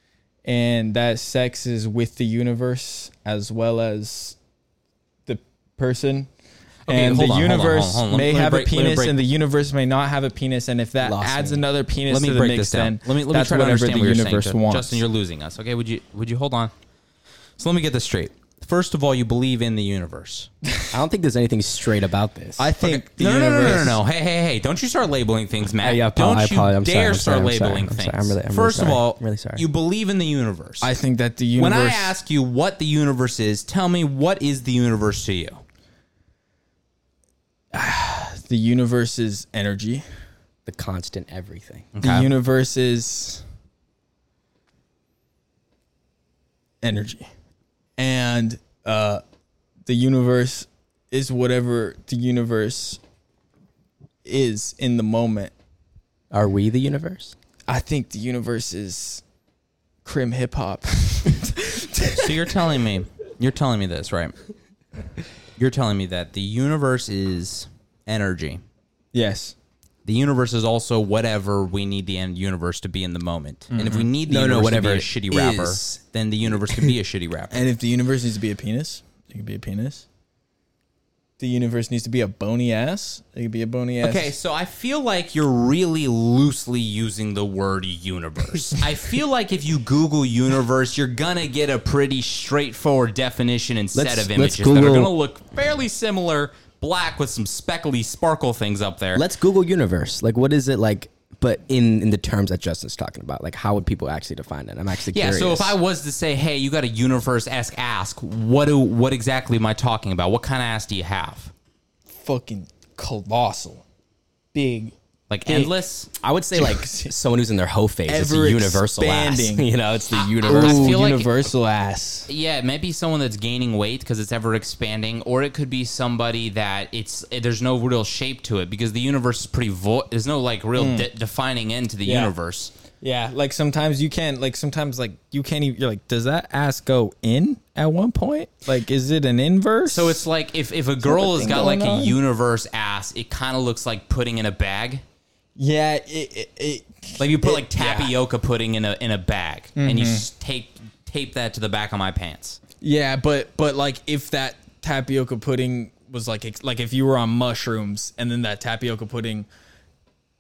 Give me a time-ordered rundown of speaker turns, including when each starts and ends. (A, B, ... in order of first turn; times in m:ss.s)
0:00.4-0:04.4 A
0:05.3-0:06.3 A
0:06.9-0:09.2 B
0:06.9-0:15.0 A
0:11.0-0:11.7 C
0:12.1-0:16.7 B
0:17.6-0:20.5 B
0:20.9-0:22.7 C
0:22.6-0:24.0 A
0:22.8-0:30.9 B
0:25.8-0:29.6 C
0:30.8-0:32.2 A
0:31.6-0:35.6 B
0:37.7-0:40.0 A
0:40.7-0:41.9 C
0:42.0-0:42.3 B
0:42.0-0:43.4 A
0:46.8-0:47.3 A
0:48.0-0:49.2 A
0:49.9-0:53.0 A
0:54.2-0:55.5 A
0:56.3-0:57.4 C
0:57.7-0:59.2 A
1:00.0-1:02.3 A
1:02.1-1:04.3 B
1:05.6-1:08.6 B
1:09.1-1:09.6 A
1:10.0-1:17.6 B
1:13.7-1:14.1 A
1:14.3-1:16.0 C
1:16.6-1:16.9 C
1:17.5-1:20.0 A
1:21.4-1:24.3 A
1:24.0-1:39.2 B
1:33.9-1:35.1 C
1:39.1-1:45.8 C
1:45.1-1:51.5 B
1:52.1-1:53.8 A
1:54.5-1:54.9 A
1:55.3-1:56.1 B
1:55.5-1:55.7 A
1:56.2-2:01.0 C
1:56.5-1:57.1 A
1:58.1-1:59.7 A
2:00.1-2:01.3 B
2:00.4-2:02.3 A
2:02.3-2:12.7 B
2:10.8-2:11.1 A
2:12.0-2:12.3 A
2:13.0-2:20.2 A
2:19.9-2:25.0 B
2:21.0-2:22.2 A
2:25.6-2:28.1 A
2:27.2-2:32.6 B
2:29.8-2:30.3 A
2:32.8-2:39.5 A